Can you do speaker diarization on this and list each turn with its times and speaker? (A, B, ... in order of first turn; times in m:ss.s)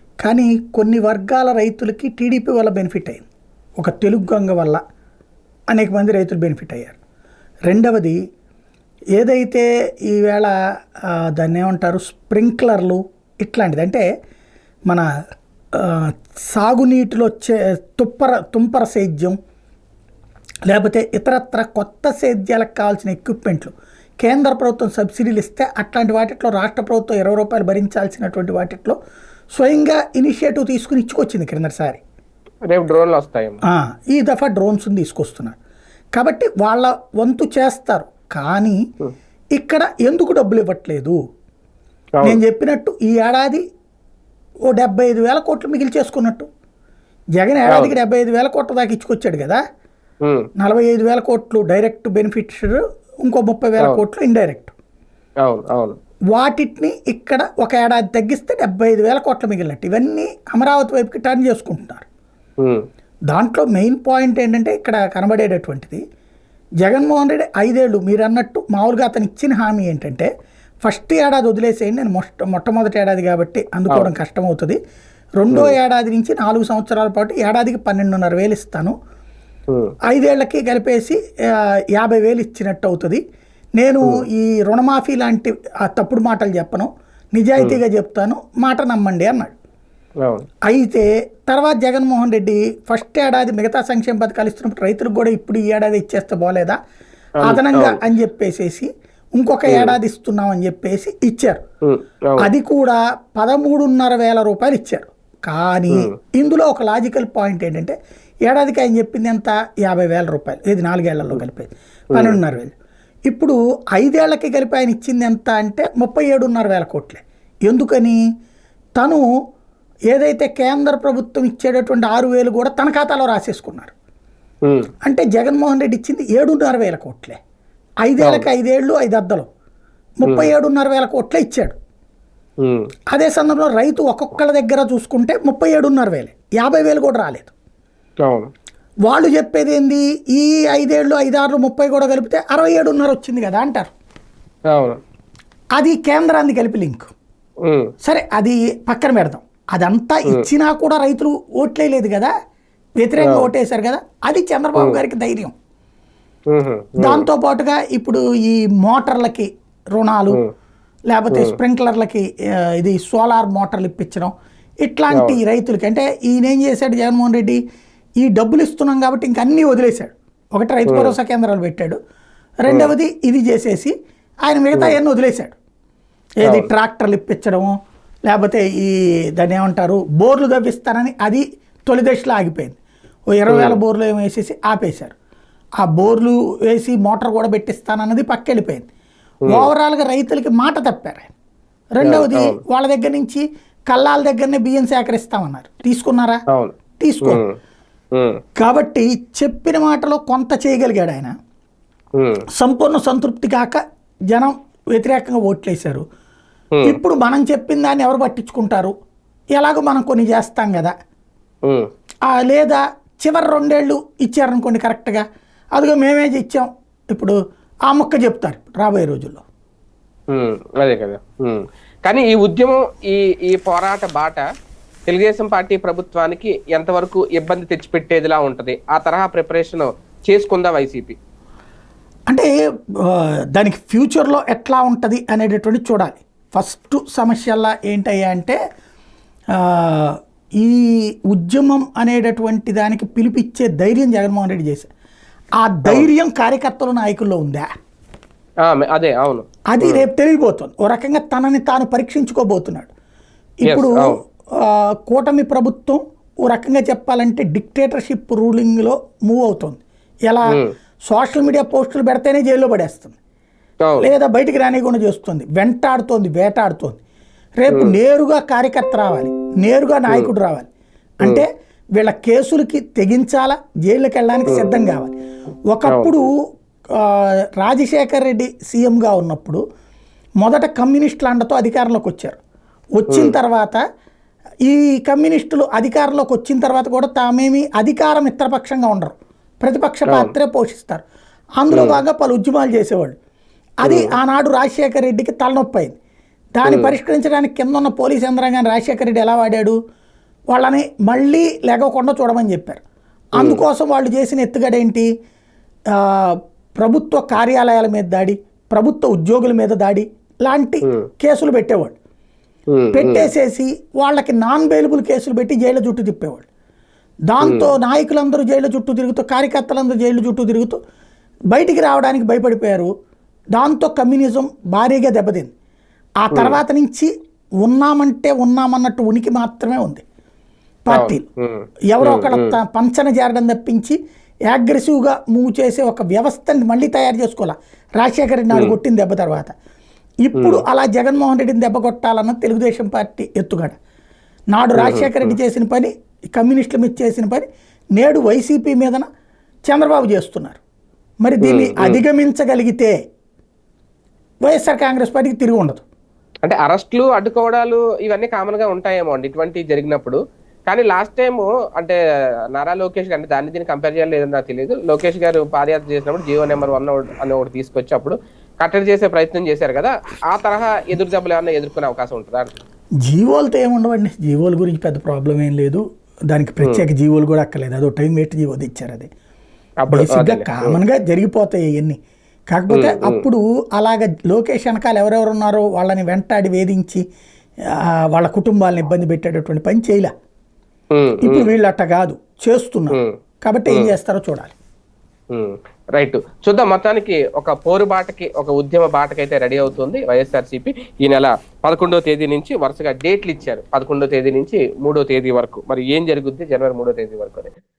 0:00.2-0:03.2 A
0:03.8-0:04.8 A
0:05.7-0:07.0 A
0:07.7-0:08.2 A
0:09.2-0:10.5 A
0:11.1-0:14.0 A
0:15.8-0:19.4 A
0:20.7-0:29.0 A
0:29.5-0:32.0 A
0:32.7-0:33.6 B
0:33.7-0:35.6 A
0:36.2-0:38.8 A
0:39.5-0:41.2 A
0:42.2-0:43.6 A
0:44.7-0:46.5 A
0:47.4-0:49.6 A
0:50.6-0:54.7 A
0:55.4-0:56.0 B
0:56.3-1:02.0 A
1:03.3-1:06.0 A
1:06.8-1:10.3 A
1:10.8-1:14.8 A
1:15.4-1:18.9 A
1:15.5-1:15.8 B
1:20.1-1:23.2 A
1:23.8-1:29.5 A
1:30.7-1:36.8 A
1:37.4-1:41.6 A
1:37.4-1:38.0 B
1:39.7-1:40.0 B
1:41.8-1:42.5 B
1:42.4-1:47.9 A
1:48.5-1:52.7 A
1:52.1-1:52.4 B
1:53.3-1:58.2 A
1:59.0-1:59.2 A
2:00.1-2:03.9 A
2:05.0-2:07.4 A
2:08.0-2:09.5 A
2:08.2-2:08.5 B
2:10.2-2:11.8 A
2:10.2-2:10.5 B
2:13.1-2:17.5 A
2:19.1-2:23.9 A
2:24.7-2:25.0 B
2:25.8-2:27.1 A
2:28.0-2:32.3 A
2:33.0-2:35.5 A
2:33.2-2:33.5 B
2:36.5-2:37.2 B
2:37.0-2:40.4 A
2:41.1-2:47.6 A
2:41.3-2:41.6 B
2:45.1-2:45.4 B
2:48.2-2:52.0 A
2:50.9-2:51.1 B
2:52.6-2:53.9 A
2:54.5-2:55.6 A
2:56.4-2:57.7 A
2:56.4-2:56.7 B
2:58.3-3:02.8 A
3:03.3-3:05.1 A
3:03.5-3:03.8 B
3:05.8-3:08.8 A
3:09.5-3:11.3 A
3:12.0-3:16.4 A
3:12.0-3:12.6 B
3:16.5-3:17.5 B
3:17.0-3:17.4 A
3:18.6-3:21.3 A
3:22.2-3:22.4 B
3:22.6-3:26.0 A
3:26.8-3:28.9 A
3:29.6-3:30.9 A
3:32.3-3:35.2 A
3:35.8-3:37.4 A
3:37.9-3:39.4 A
3:40.3-3:44.4 B
3:45.1-3:51.2 B
3:53.0-3:58.6 A
3:59.6-4:04.9 A
4:05.6-4:07.7 A
4:08.7-4:10.0 B
4:09.7-4:12.9 A
4:13.6-4:20.6 A
4:13.6-4:14.2 B
4:21.1-4:23.2 A
4:24.0-4:27.0 A
4:27.6-4:30.7 A
4:27.7-4:28.0 B
4:31.2-4:35.1 A
4:35.7-4:36.3 A
4:35.9-4:36.1 B
4:37.0-4:39.6 A
4:40.4-4:42.4 A
4:43.0-4:43.8 A
4:43.1-4:43.3 B
4:44.7-4:51.0 A
4:51.6-4:53.1 A
4:51.7-4:52.0 B
4:53.8-4:56.0 A
4:53.8-4:54.1 B
4:56.6-4:59.8 A
4:56.6-4:56.9 B
5:00.5-5:02.8 A
5:03.4-5:05.1 A
5:06.0-5:11.9 A
5:12.7-5:13.3 B
5:12.9-5:16.5 A
5:17.3-5:20.8 A
5:17.4-5:17.7 B
5:21.5-5:22.9 A
5:23.6-5:25.5 A
5:26.2-5:27.1 A
5:26.3-5:26.6 B
5:27.6-5:30.0 A
5:30.9-5:31.2 A
5:30.9-5:32.6 B
5:31.9-5:34.0 A
5:34.5-5:39.5 A
5:40.2-5:43.8 A
5:40.4-5:40.6 B
5:44.5-5:49.0 A
5:44.8-5:45.3 B
5:49.7-5:50.6 A
5:51.2-5:53.0 A
5:51.4-5:52.0 B
5:54.4-5:55.8 A
5:56.4-6:02.0 B
6:02.6-6:12.5 B
6:13.0-6:19.1 A
6:19.8-6:20.8 B
6:19.9-6:22.0 A
6:22.5-6:27.0 A
6:22.7-6:23.2 B
6:28.1-6:30.1 A
6:30.9-6:31.5 B
6:31.2-6:34.6 A
6:35.3-6:47.5 B